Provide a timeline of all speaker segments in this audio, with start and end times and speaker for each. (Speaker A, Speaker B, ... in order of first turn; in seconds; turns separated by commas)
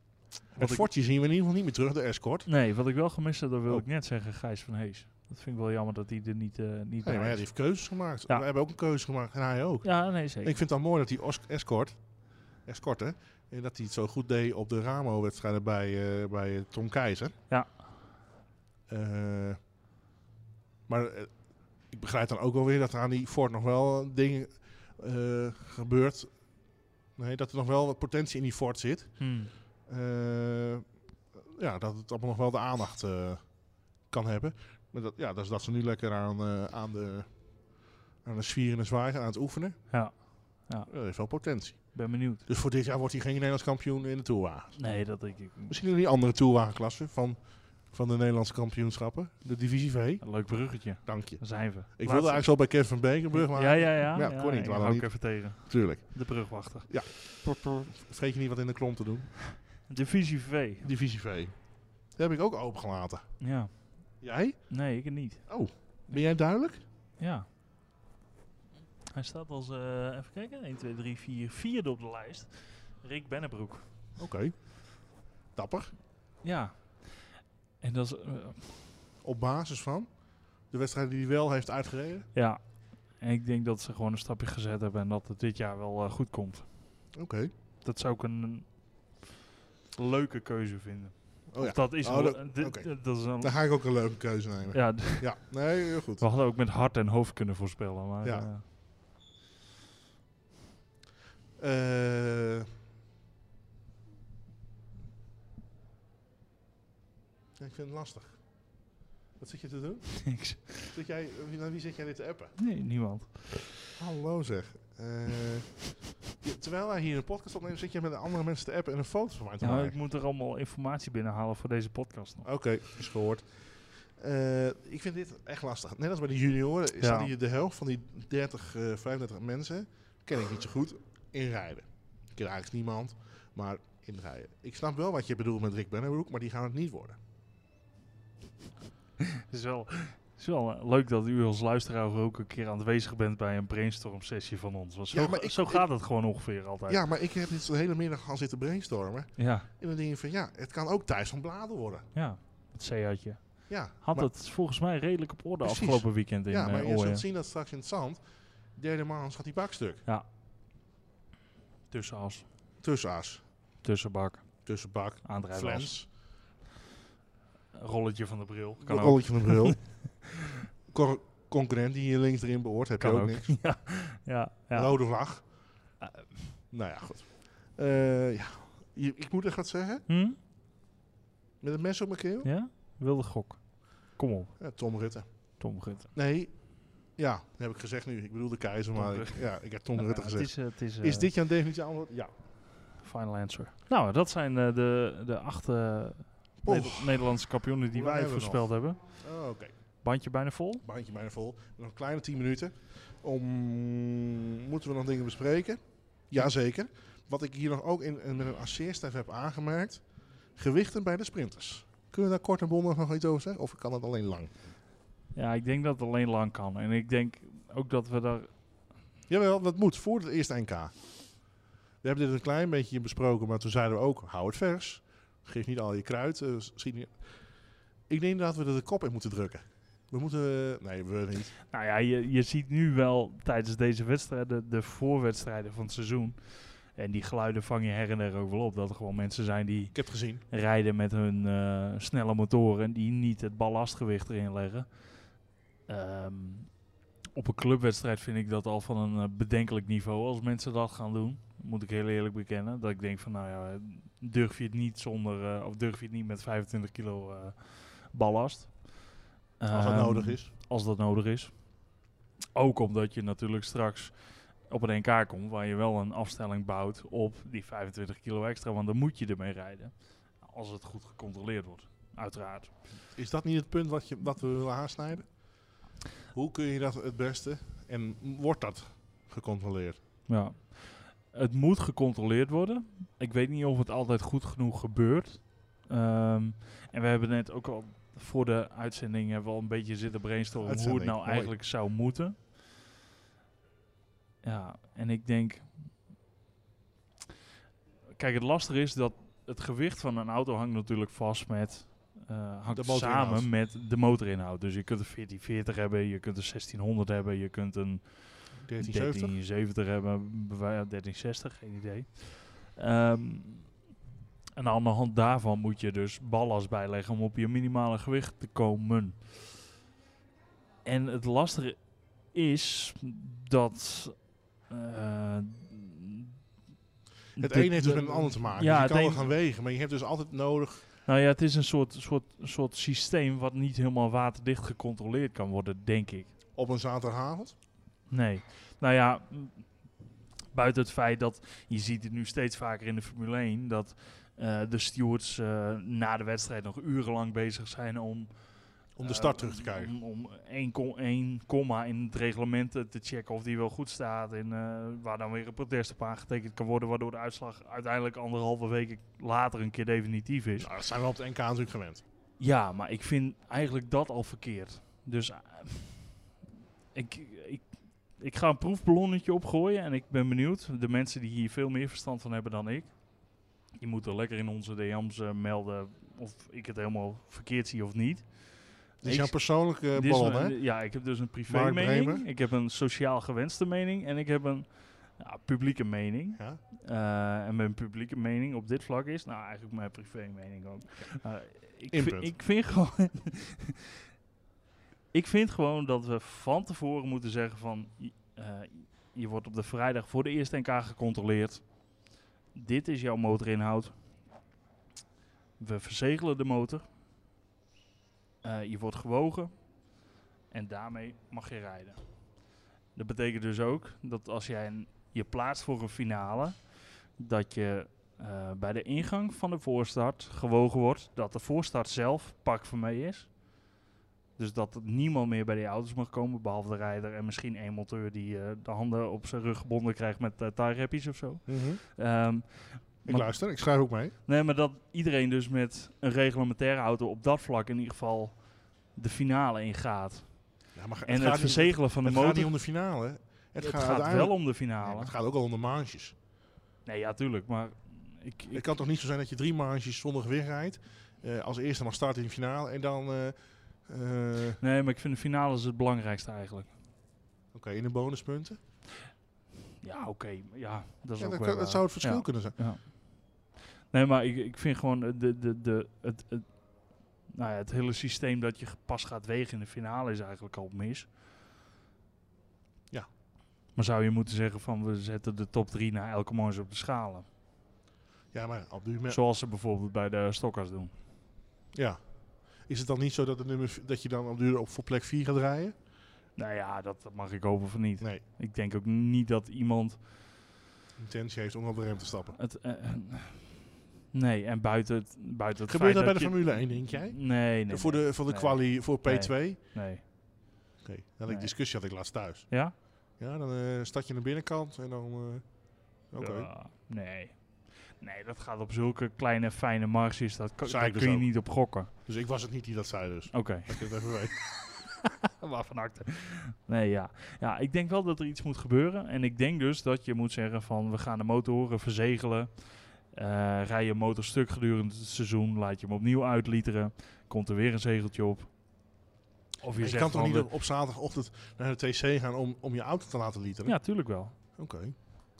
Speaker A: 0.6-0.9, Speaker B: 0.6-2.5, Speaker A: 2.5-7.5, Speaker B: 7.0-12.1, Speaker A: 9.8-10.6, Speaker B: 12.6-17.3, Speaker A: 17.5-17.8, Speaker B: 18.9-19.6, Speaker B: 20.9-26.4, Speaker B: 27.2-29.3, Speaker A: 29.2-29.5, Speaker B: 29.9-30.9, Speaker B: 31.4-39.9, Speaker A: 39.9-40.9, Speaker B: 40.9-44.9, Speaker A: 41.9-42.4, Speaker A: 44.8-45.8, Speaker B: 45.7-59.4, Speaker A: 50.2-52.7, Speaker A: 53.3-57.2, Speaker A: 59.8-60.9, Speaker B: 60.8-63.4, Speaker A: 63.4-65.5, Speaker B: 64.2-64.8, Speaker B: 65.5-66.8, Speaker A: 67.2-67.5, Speaker A: 69.1-73.9, Speaker B: 74.2-75.0, Speaker B: 75.5-75.9, Speaker A: 76.4-78.9, Speaker B: 79.2-80.1, Speaker B: 80.6-82.3, Speaker A: 82.3-86.9, Speaker B: 87.1-87.5, Speaker A: 87.8-89.2, Speaker A: 90.0-93.5, Speaker B: 91.5-96.2, Speaker A: 94.7-95.6, Speaker A: 96.2-98.7, Speaker B: 98.2-98.5, Speaker B: 101.6-102.7, Speaker B: 107.6-108.4, Speaker B: 109.4-112.6, Speaker A: 110.2-110.9, Speaker A: 112.6-113.8, Speaker B: 114.0-120.0, Speaker A: 119.6-122.5, Speaker B: 122.4-137.2, Speaker A: 127.0-127.3, Speaker A: 139.3-147.0, Speaker B: 145.1-145.9, Speaker B: 146.9-152.1, Speaker A: 149.4-149.7, Speaker A: 152.1-157.2, Speaker B: 153.7-154.3, Speaker B: 155.6-158.2, Speaker B: 158.7-160.0, Speaker A: 161.9-162.5, Speaker B: 162.8-163.4, Speaker A: 163.8-164.7, Speaker B: 164.7-166.1, Speaker A: 165.2-165.9, Speaker A: 167.7-170.1, Speaker B: 168.8-169.9, Speaker B: 170.9-173.7, Speaker A: 173.0-175.0, Speaker B: 174.7-175.5, Speaker A: 176.0-176.4, Speaker B: 176.7-180.1, Speaker A: 180.1-180.4, Speaker B: 181.6-182.5, Speaker A: 182.4-184.6, Speaker B: 184.6-192.3, Speaker A: 185.6-186.1, Speaker A: 188.9-191.3, Speaker A: 193.0-199.0, Speaker B: 196.6-197.4, Speaker B: 197.9-198.7, Speaker B: 199.2-199.7, Speaker A: 200.0-200.8, Speaker B: 200.8-210.0, Speaker B: 210.6-214.5, Speaker A: 215.3-218.6, Speaker B: 219.3-221.5, Speaker B: 222.0-227.2, Speaker B: 228.1-231.5, Speaker A: 231.7-245.4, Speaker B: 239.9-240.4, Speaker A: 245.9-261.8, Speaker B: 259.7-260.5, Speaker A: 262.5-272.8, Speaker B: 273.1-275.4, Speaker B: 276.3-280.0, Speaker A: 280.3-292.4, Speaker B: 290.6-291.5, Speaker A: 294.4-295.9, Speaker A: 298.1-313.8, Speaker B: 302.7-303.5, Speaker B: 308.6-309.3, Speaker A: 314.6-319.3, Speaker A: 320.8-326.4, Speaker A: 327.4-329.3, Speaker B: 327.4-330.9, Speaker A: 331.1-336.3, Speaker B: 336.6-337.6, Speaker A: 338.1-340.0, Speaker A: 340.5-360.7, Speaker B: 349.0-349.9, Speaker B: 360.6-362.0, Speaker A: 362.4-366.3, Speaker A: 366.9-393.8, Speaker B: 379.0-380.6, Speaker B: 381.5-382.3, Speaker B: 391.9-392.3, Speaker A: 395.1-401.9, Speaker A: 402.5-404.0, Speaker A: 405.6-406.9, Speaker A: 408.4-409.8, Speaker A: 410.5-423.5, Speaker A: 424.4-433.7, Speaker B: 431.5-431.8, Speaker B: 433.1-434.1, Speaker A: 434.2-442.5, Speaker B: 440.8-446.1, Speaker A: 443.6-445.1, Speaker A: 446.9-448.7, Speaker B: 448.5-454.6, Speaker A: 454.6-456.8, Speaker B: 457.5-458.6, Speaker A: 459.8-471.1, Speaker B: 461.2-462.6, Speaker A: 473.8-477.3, Speaker B: 478.3-479.2, Speaker A: 479.1-480.9, Speaker B: 481.7-482.0, Speaker B: 482.6-485.8, Speaker A: 486.4-490.0, Speaker B: 491.0-492.4, Speaker A: 492.4-500.0, Speaker B: 495.7-499.6, Speaker B: 500.8-502.6, Speaker A: 501.3-501.5, Speaker A: 502.5-502.8, Speaker B: 503.2-505.6, Speaker B: 506.1-506.5, Speaker A: 506.2-511.9, Speaker B: 510.6-514.4, Speaker A: 513.3-528.5, Speaker A: 529.6-530.5, Speaker B: 529.8-533.9, Speaker A: 533.7-534.4, Speaker B: 534.5-535.0